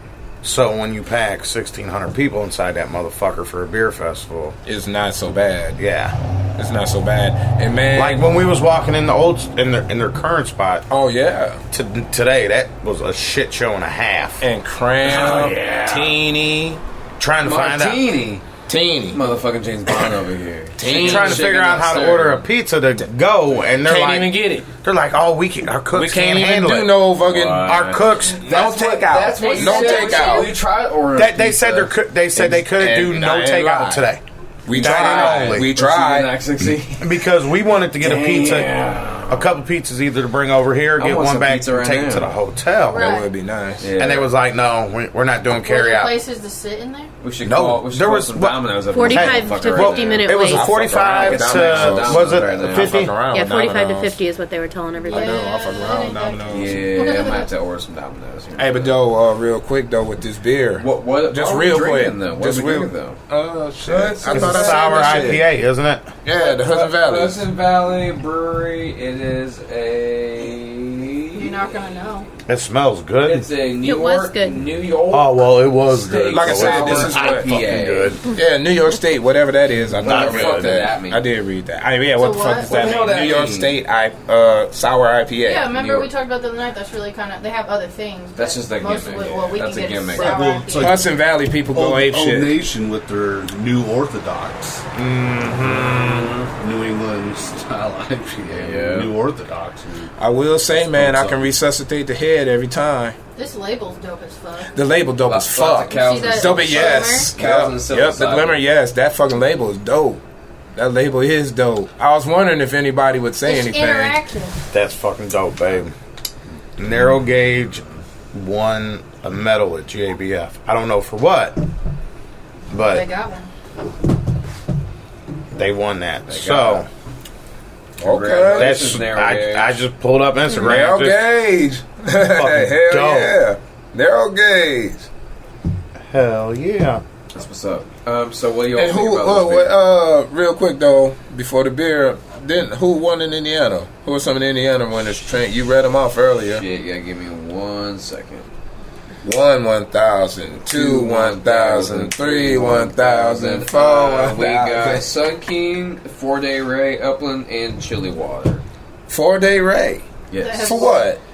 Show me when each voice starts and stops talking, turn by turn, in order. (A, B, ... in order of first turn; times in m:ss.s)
0:00.4-0:04.6 A
0:04.6-0:05.8 B
0:05.8-0:06.1 A
0:06.6-0:08.4 B
0:07.9-0:10.9 A
0:10.9-0:11.6 B
0:11.7-0:14.4 A
0:14.4-0:16.8 B
0:15.0-0:16.1 C
0:17.2-0:18.3 A
0:17.4-0:18.4 C
0:18.6-0:19.2 B
0:19.1-0:22.5 C
0:20.8-0:21.6 B
0:20.8-0:28.4 A
0:23.6-0:24.7 B
0:25.9-0:30.5 B
0:27.2-0:31.9 C
0:29.3-0:30.5 D
0:31.1-0:35.7 A
0:32.3-0:34.1 B
0:34.6-0:36.4 B
0:34.7-0:37.2 C
0:37.0-0:38.7 A
0:38.0-0:39.5 C
0:39.3-0:43.1 A
0:41.0-0:42.3 C
0:42.8-0:43.3 D
0:42.9-0:43.9 B
0:43.8-0:44.3 C
0:44.0-0:46.2 A
0:45.5-0:47.1 D
0:47.2-0:53.1 C
0:47.4-0:53.2 A
0:48.9-0:50.7 E
0:50.2-0:54.2 B
0:53.2-0:55.4 E
0:55.0-0:57.5 D
0:55.0-0:56.9 B
0:56.5-0:59.0 C
0:58.6-1:05.5 B
1:00.8-1:03.2 C
1:04.1-1:06.1 A
1:06.2-1:07.4 B
1:06.4-1:11.6 C
1:11.3-1:12.3 D
1:12.5-1:13.5 A
1:13.2-1:18.2 C
1:13.7-1:14.6 E
1:15.1-1:17.7 A
1:16.3-1:17.5 B
1:16.8-1:18.2 F
1:18.3-1:25.7 B
1:20.0-1:20.9 A
1:20.0-1:21.2 C
1:22.2-1:22.7 D
1:22.6-1:23.8 C
1:25.4-1:31.0 D
1:25.7-1:26.1 C
1:28.4-1:30.4 C
1:30.1-1:31.1 F
1:30.8-1:32.6 B
1:31.7-1:34.8 F
1:35.0-1:36.3 B
1:35.6-1:36.5 C
1:36.5-1:40.1 F
1:38.4-1:39.1 C
1:40.2-1:43.2 B
1:40.8-1:41.5 F
1:43.4-1:44.7 D
1:44.7-1:50.2 B
1:45.2-1:48.6 C
1:45.9-1:47.3 D
1:50.7-1:54.2 B
1:53.4-1:54.6 D
1:54.7-1:55.9 A
1:56.8-2:01.6 A
2:02.7-2:03.1 A
2:02.8-2:03.5 D
2:05.5-2:06.9 A
2:06.3-2:06.9 C
2:08.0-2:08.9 B
2:08.0-2:09.8 C
2:08.5-2:11.2 A
2:10.5-2:15.1 B
2:12.4-2:13.4 A
2:16.0-2:17.0 A
2:17.3-2:19.7 C
2:18.7-2:26.6 B
2:26.5-2:28.5 C
2:29.2-2:35.1 B
2:30.7-2:38.6 C
2:39.1-2:40.1 B
2:40.3-2:40.9 C
2:40.4-2:41.1 D
2:40.6-2:41.2 B